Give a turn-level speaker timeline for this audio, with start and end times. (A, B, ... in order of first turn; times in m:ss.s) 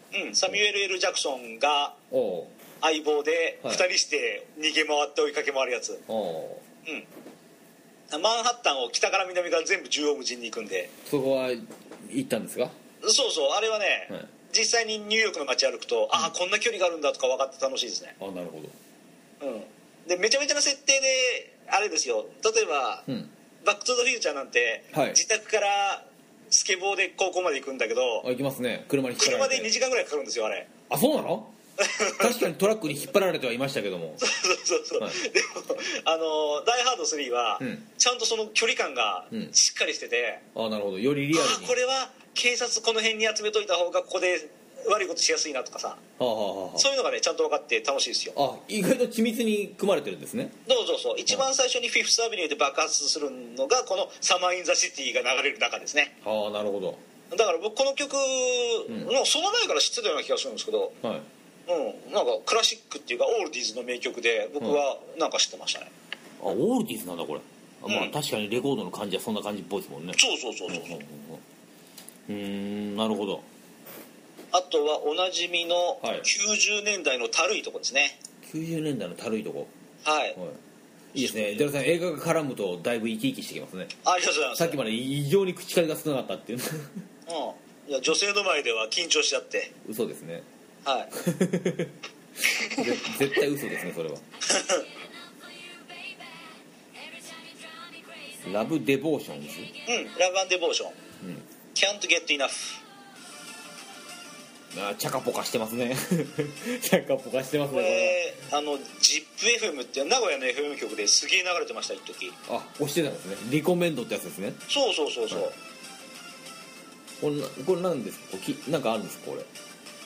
0:00.1-0:02.0 A
0:02.1-0:02.5 B
0:02.8-0:06.0 A
0:06.1-0:06.6 B
0:08.1-0:10.9 A
0:11.0-0:12.7 B
0:13.0-0:18.2 A
0:18.2-0:18.7 B
0:19.4-0:23.0 A
0:23.6-0:28.2 A
0:24.9-0:25.2 B
0:28.2-0:29.7 B
0:29.2-0:30.7 A
0:30.9-0:31.5 B
0:31.8-0:32.4 A
0:32.2-0:34.2 B
0:34.2-0:40.4 A
0:37.6-0:37.8 B
0:40.5-0:41.7 B
0:41.3-0:46.0 A
0:46.2-0:46.9 B
0:46.8-0:48.3 A
0:48.3-0:50.6 B
0:50.6-0:56.1 A
0:56.2-0:57.0 B
0:57.3-1:00.9 A
1:01.7-1:05.9 A
1:06.4-1:11.4 B
1:07.9-1:08.1 A
1:10.2-1:11.0 A
1:12.3-1:13.4 B
1:14.5-1:18.2 A
1:16.0-1:16.3 B
1:18.4-1:19.7 B
1:20.0-1:20.4 A
1:21.1-1:24.0 B
1:21.1-1:21.7 A
1:24.0-1:24.8 A
1:24.6-1:27.0 B
1:27.3-1:29.7 A
1:29.8-1:30.4 B
1:30.8-1:31.1 A
1:31.1-1:31.9 B
1:32.6-1:34.2 B
1:34.5-1:34.8 A
1:38.4-1:39.7 B
1:39.9-1:41.0 A
1:41.7-1:42.8 A
1:44.7-1:48.2 B
1:47.7-1:52.4 A
1:52.5-1:54.6 B
1:54.7-1:55.5 A
1:57.2-1:59.5 B